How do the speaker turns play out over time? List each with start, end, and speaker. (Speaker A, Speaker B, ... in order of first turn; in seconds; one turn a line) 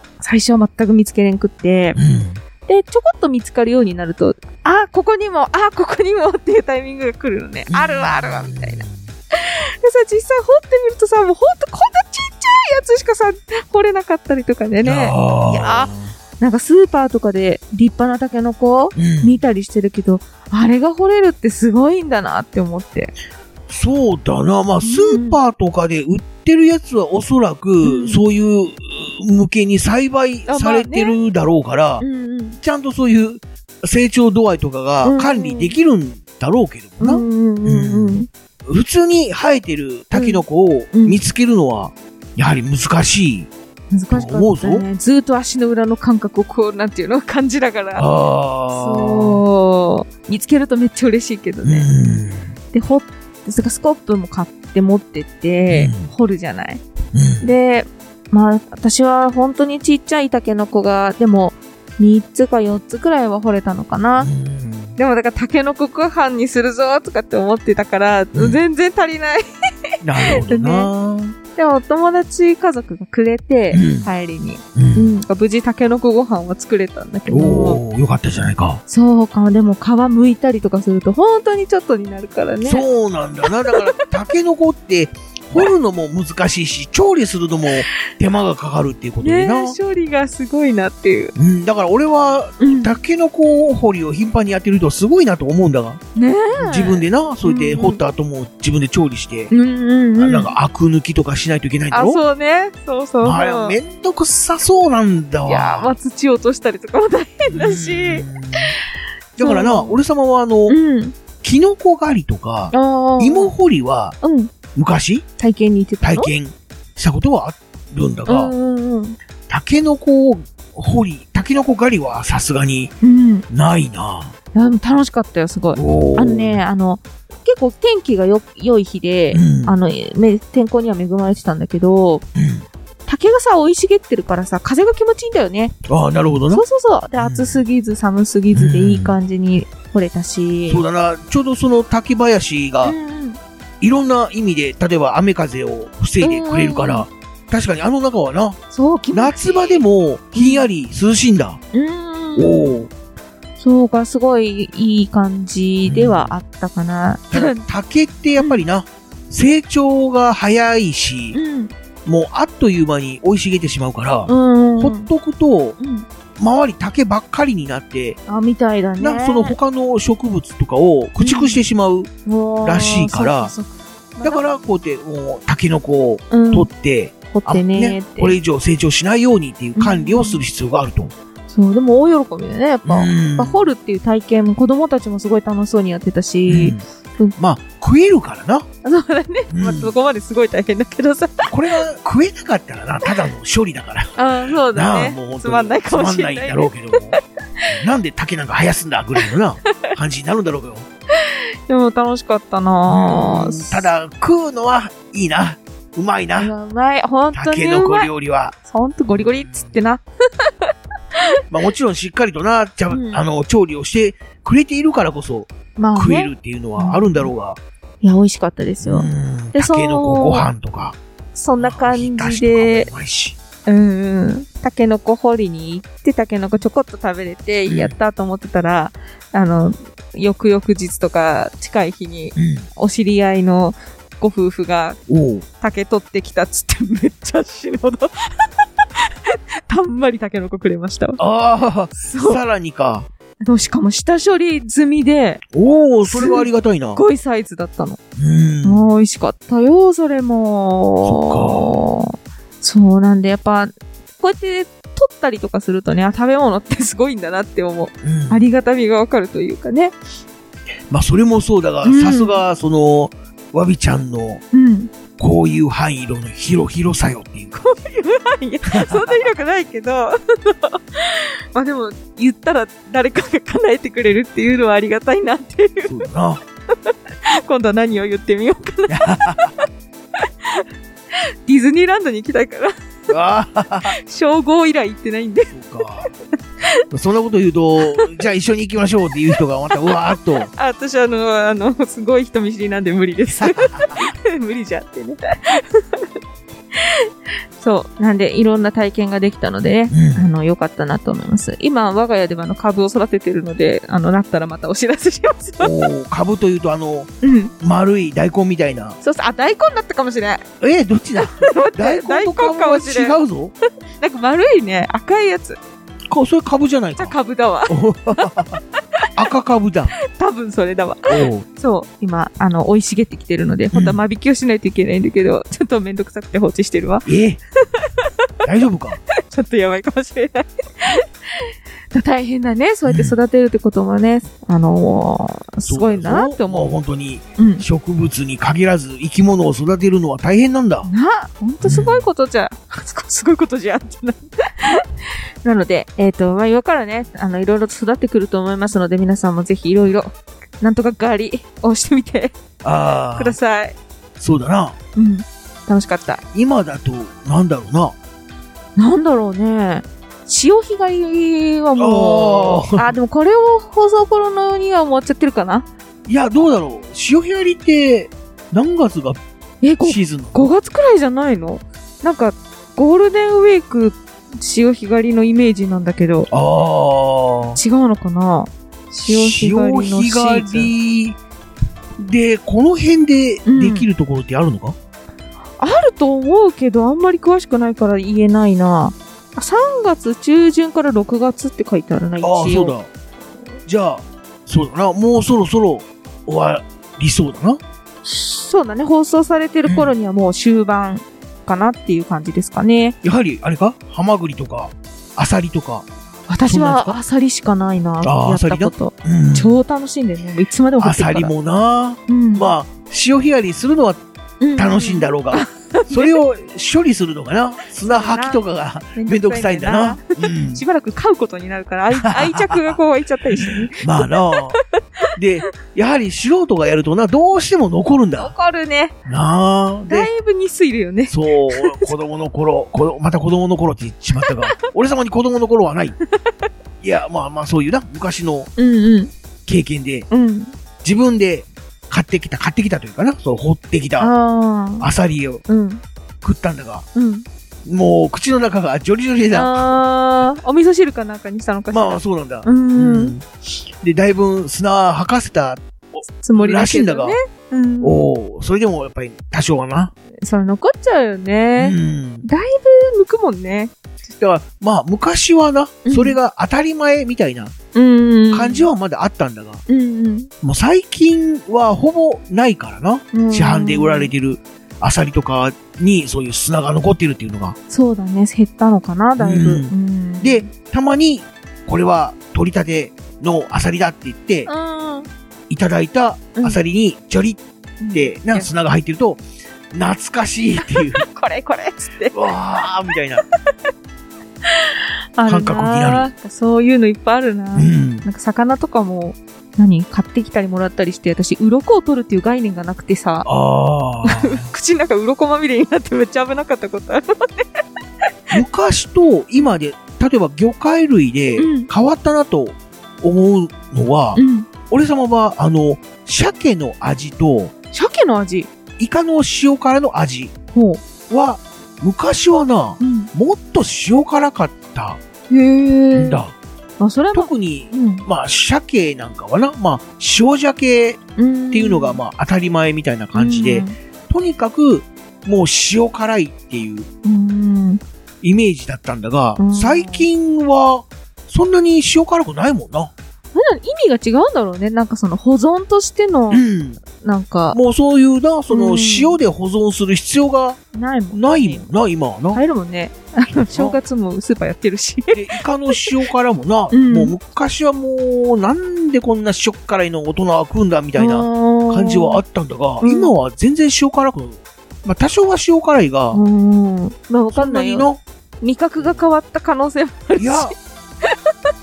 Speaker A: 0.2-2.0
Speaker B: 2.0-2.4
Speaker A: 2.7-23.1
Speaker B: 7.7-8.9
Speaker B: 14.8-16.1
Speaker B: 18.9-19.4
Speaker B: 23.7-32.1
Speaker A: 24.8-25.4
Speaker A: 27.8-28.2
Speaker A: 30.5-31.2
Speaker A: 32.0-32.6
Speaker B: 32.6-43.5
Speaker A: 35.0-35.8
Speaker A: 37.0-38.3
Speaker A: 40.1-41.2
Speaker A: 43.9-48.1
Speaker B: 44.1-44.9
Speaker B: 48.0-49.4
Speaker A: 48.7-52.0
Speaker B: 51.6-52.5
Speaker A: 52.7-56.8
Speaker B: 55.7-56.1
Speaker B: 57.1-57.5
Speaker A: 57.4-64.3
Speaker B: 64.2-65.0
Speaker A: 65.0-69.4
Speaker B: 68.3-68.6
Speaker B: 70.0-71.4
Speaker A: 70.3-70.9
Speaker A: 71.5-77.8
Speaker B: 73.7-74.1
Speaker B: 74.8-75.2
Speaker B: 77.3-78.8
Speaker A: 78.9-82.9
Speaker B: 82.6-89.8
Speaker A: 89.2-91.3
Speaker B: 91.3-96.0
Speaker A: 92.6-93.0
Speaker A: 96.2-98.0
Speaker B: 96.5-99.5
Speaker A: 99.5-100.5
Speaker B: 100.2-102.2
Speaker A: 101.9-103.8
Speaker B: 103.2-105.9
Speaker A: 105.5-108.3
Speaker B: 107.5-108.8
Speaker B: 109.4-110.8
Speaker A: 109.4-110.0
Speaker A: 110.7-111.2
Speaker B: 111.4-114.2
Speaker A: 112.7-113.5
Speaker A: 114.2-114.5
Speaker B: 114.8-115.2
Speaker A: 115.4-116.3
Speaker B: 116.0-118.5
Speaker A: 118.3-119.2
Speaker B: 119.5-122.9
Speaker A: 123.0-123.5
Speaker B: 123.5-124.3
Speaker A: 124.5-132.2
Speaker B: 125.8-126.6
Speaker B: 129.3-129.8
Speaker B: 132.3-132.7
Speaker A: 133.1-135.7
Speaker B: 135.9-136.7
Speaker A: 136.5-140.8
Speaker B: 137.2-137.6
Speaker B: 138.5-139.2
Speaker B: 140.7-143.0
Speaker A: 142.8-143.4
Speaker B: 143.8-148.6
Speaker A: 146.2-147.1
Speaker A: 148.7-149.8
Speaker B: 149.1-151.6
Speaker A: 150.3-150.7
Speaker A: 151.7-152.8
Speaker B: 152.4-152.9
Speaker A: 153.6-157.6
Speaker B: 155.9-156.3
Speaker B: 157.3-161.4
Speaker A: 158.4-158.6
Speaker A: 161.3-161.7
Speaker B: 162.1-165.8
Speaker A: 164.3-165.1
Speaker A: 165.8-166.1
Speaker B: 166.4-168.2
Speaker A: 168.3-169.6
Speaker B: 169.0-172.1
Speaker A: 171.2-171.6
Speaker A: 172.2-174.4
Speaker B: 172.6-173.5
Speaker B: 174.2-181.1
Speaker A: 176.3-176.7
Speaker A: 177.3-178.4
Speaker A: 179.8-180.4
Speaker A: 181.5-187.4
Speaker B: 182.8-183.7
Speaker B: 186.5-186.8
Speaker B: 187.4-188.7
Speaker A: 188.8-191.6
Speaker B: 189.5-189.9
Speaker B: 191.5-197.2
Speaker A: 194.2-197.2
Speaker B: 197.7-200.9
Speaker A: 201.2-203.9
Speaker B: 202.9-206.5
Speaker A: 206.4-208.1
Speaker B: 207.3-208.6
Speaker A: 208.6-211.2
Speaker B: 211.5-217.6
Speaker A: 212.9-213.2
Speaker A: 215.8-217.3
Speaker A: 218.0-220.5
Speaker B: 218.8-221.0
Speaker A: 221.3-222.9
Speaker B: 221.6-223.4
Speaker A: 223.7-235.0
Speaker B: 227.7-227.9
Speaker B: 232.4-232.7
Speaker B: 235.1-235.4
Speaker A: 235.6-238.5
Speaker A: 239.3-241.2
Speaker B: 241.2-243.1
Speaker A: 242.1-242.4
Speaker A: 243.4-245.4
Speaker B: 245.5-247.0
Speaker A: 246.1-248.0
Speaker B: 248.2-248.9
Speaker A: 248.6-259.9
Speaker B: 251.0-251.8
Speaker B: 258.0-258.5
Speaker B: 260.9-264.4
Speaker A: 261.8-262.4
Speaker A: 264.5-264.9
Speaker B: 265.2-267.6
Speaker A: 267.6-275.9
Speaker B: 268.6-269.3
Speaker B: 275.9-276.4
Speaker A: 276.9-279.6
Speaker B: 278.9-279.6
Speaker A: 281.4-282.8
Speaker B: 283.1-283.9
Speaker A: 283.9-285.5
Speaker B: 285.5-286.1
Speaker B: 286.9-290.5
Speaker A: 287.8-288.1
Speaker A: 289.7-296.1
Speaker B: 293.3-294.0
Speaker A: 296.8-305.7
Speaker B: 299.9-300.2
Speaker B: 305.6-309.0
Speaker A: 307.2-307.5
Speaker A: 309.0-310.4
Speaker B: 310.6-313.5
Speaker A: 311.2-313.2
Speaker A: 314.0-315.6
Speaker B: 316.1-317.2
Speaker A: 317.0-318.8
Speaker B: 317.7-318.6
Speaker B: 319.2-319.9
Speaker A: 320.1-327.1
Speaker B: 321.1-321.5
Speaker B: 323.7-324.0
Speaker B: 327.1-327.4
Speaker A: 327.8-328.1
Speaker B: 328.4-329.0
Speaker A: 329.2-336.7
Speaker B: 332.9-333.2
Speaker B: 335.7-340.9
Speaker A: 337.4-337.6
Speaker A: 340.9-344.9
Speaker B: 341.6-342.1
Speaker A: 345.4-352.3
Speaker B: 352.6-353.4
Speaker A: 353.1-353.8
Speaker B: 354.2-354.8
Speaker A: 354.9-356.2
Speaker B: 356.3-358.0
Speaker A: 358.8-365.7
Speaker B: 361.8-362.9
Speaker B: 366.1-369.2
Speaker A: 369.6-376.3
Speaker B: 369.8-370.5
Speaker B: 376.3-377.6
Speaker A: 377.6-380.7
Speaker B: 379.1-381.2
Speaker B: 382.0-384.8
Speaker A: 383.5-383.9
Speaker A: 385.6-392.7
Speaker B: 392.2-392.9
Speaker B: 393.7-397.6
Speaker A: 398.0-403.0
Speaker B: 399.7-399.9
Speaker B: 403.0-405.9
Speaker A: 406.3-411.3
Speaker B: 406.5-407.0
Speaker B: 408.0-409.5
Speaker B: 410.8-414.0
Speaker A: 412.1-412.5
Speaker A: 414.4-416.2
Speaker B: 414.6-420.6
Speaker A: 417.8-418.4
Speaker A: 418.9-424.4
Speaker B: 421.9-422.8
Speaker B: 423.4-424.6
Speaker B: 425.1-428.3
Speaker A: 428.2-428.9
Speaker B: 429.1-430.1
Speaker A: 429.9-431.9
Speaker B: 431.1-436.0
Speaker B: 436.8-438.5
Speaker A: 438.6-439.1
Speaker B: 439.5-440.1
Speaker A: 440.1-440.5
Speaker B: 440.8-444.1
Speaker A: 444.0-444.9
Speaker B: 444.8-445.4
Speaker A: 445.5-445.8
Speaker B: 446.2-446.9
Speaker A: 446.9-447.2
Speaker B: 447.7-449.7
Speaker A: 449.3-453.1
Speaker B: 451.7-457.2
Speaker A: 456.2-458.0
Speaker B: 457.8-459.9
Speaker A: 460.2-463.7
Speaker B: 461.6-462.3
Speaker B: 464.1-467.5
Speaker A: 465.9-466.2
Speaker A: 467.7-468.7
Speaker B: 468.3-469.6
Speaker A: 469.7-470.3
Speaker B: 470.4-477.6
Speaker A: 473.1-474.1
Speaker A: 477.7-480.5
Speaker B: 479.2-484.5
Speaker A: 484.5-485.1
Speaker B: 485.5-489.2
Speaker A: 486.4-486.6
Speaker A: 487.8-488.5
Speaker B: 489.7-491.1
Speaker A: 490.6-492.2
Speaker B: 492.1-493.2
Speaker A: 494.5-503.3
Speaker B: 495.3-496.1
Speaker B: 497.6-498.1
Speaker B: 503.2-504.4
Speaker A: 504.0-507.5
Speaker B: 508.3-517.5
Speaker A: 511.4-511.7
Speaker A: 514.1-514.5
Speaker A: 517.7-518.5
Speaker B: 518.8-520.3
Speaker A: 520.5-520.8
Speaker B: 521.1-525.0
Speaker A: 522.8-523.1
Speaker A: 525.3-526.2
Speaker B: 525.9-526.4
Speaker A: 526.8-528.0
Speaker B: 527.1-531.0
Speaker A: 531.2-532.0
Speaker B: 531.5-536.9
Speaker A: 533.1-533.8
Speaker A: 537.0-537.8
Speaker B: 538.2-542.9
Speaker A: 539.4-540.1
Speaker A: 543.3-547.6
Speaker B: 546.3-546.8
Speaker B: 547.5-550.6
Speaker A: 548.5-549.2
Speaker A: 550.7-551.7
Speaker B: 551.1-552.4
Speaker A: 552.3-555.2
Speaker B: 553.4-553.8
Speaker B: 555.1-566.2
Speaker A: 556.7-557.1
Speaker A: 561.0-562.2
Speaker A: 562.8-563.1
Speaker A: 566.1-567.9
Speaker B: 567.3-568.0
Speaker A: 568.4-571.3
Speaker B: 570.2-570.5